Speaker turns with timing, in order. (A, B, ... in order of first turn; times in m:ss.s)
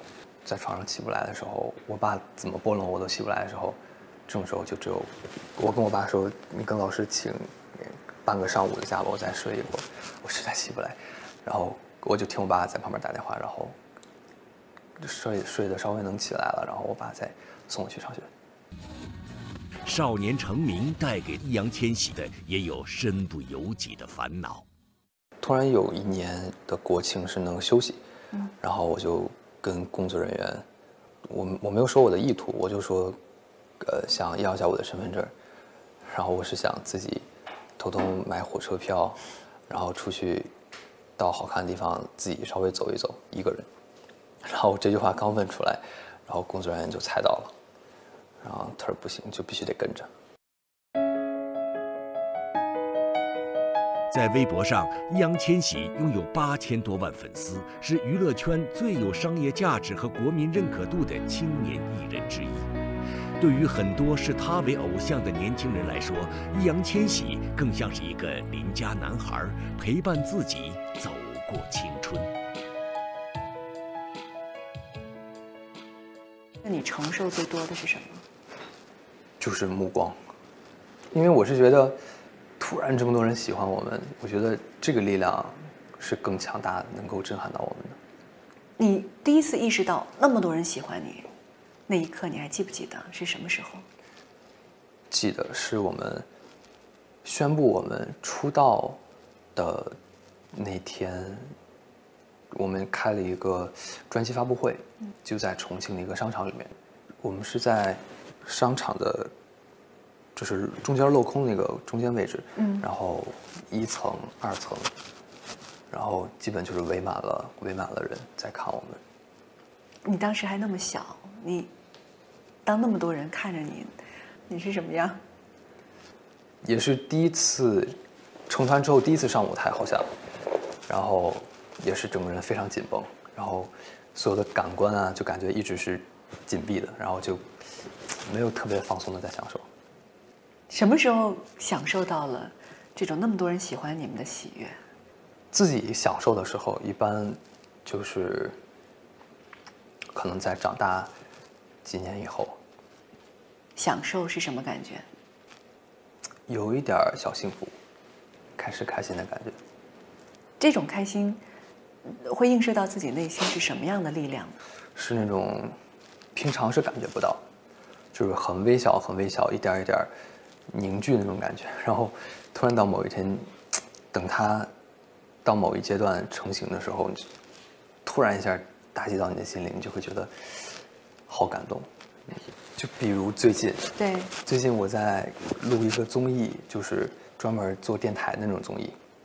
0:00.4-0:13.8 A
0:15.0-0:18.3 A
0:19.8-0:24.6 B
0:25.4-0:28.0 A
0:28.6-0:30.6 A
0:31.2-0:33.2 A
0:33.8-0:35.3 A
0:36.0-0:37.3 A
0:37.8-0:40.5 A
0:41.2-0:43.7 A
0:44.4-0:47.5 A
0:48.4-0:50.1 A
0:54.1-1:02.7 B
1:03.4-1:12.3 B
1:16.6-1:18.2 C
1:19.4-1:20.2 A
1:21.1-1:22.0 A
1:22.6-1:28.0 A
1:28.8-1:31.3 C
1:31.9-1:33.8 C
1:35.1-1:36.3 A
1:37.2-1:39.0 A
1:39.5-1:40.0 A
1:40.5-1:41.5 A
1:42.5-1:49.3 A
1:50.3-1:54.9 A
1:52.6-1:52.8 C
1:55.9-1:59.0 A
2:00.0-2:01.7 C
2:02.6-2:04.0 C
2:04.5-2:05.2 C
2:06.6-2:08.0 A
2:08.5-2:10.1 A
2:10.9-2:17.5 A
2:18.2-2:19.7 A
2:20.7-2:24.8 C
2:25.5-2:28.6 A
2:30.1-2:31.1 A
2:31.8-2:32.6 A
2:33.8-2:35.0 C
2:36.5-2:37.7 A
2:38.6-2:39.6 A
2:40.6-2:41.4 C
2:42.0-2:44.6 C
2:44.9-2:45.8 A
2:46.3-2:47.4 A
2:48.1-2:50.1 A
2:50.7-2:53.5 A
2:54.1-2:54.7 A
2:55.4-2:57.3 A
2:58.0-3:00.7 A
3:01.3-3:09.0 A
3:04.0-3:04.3 C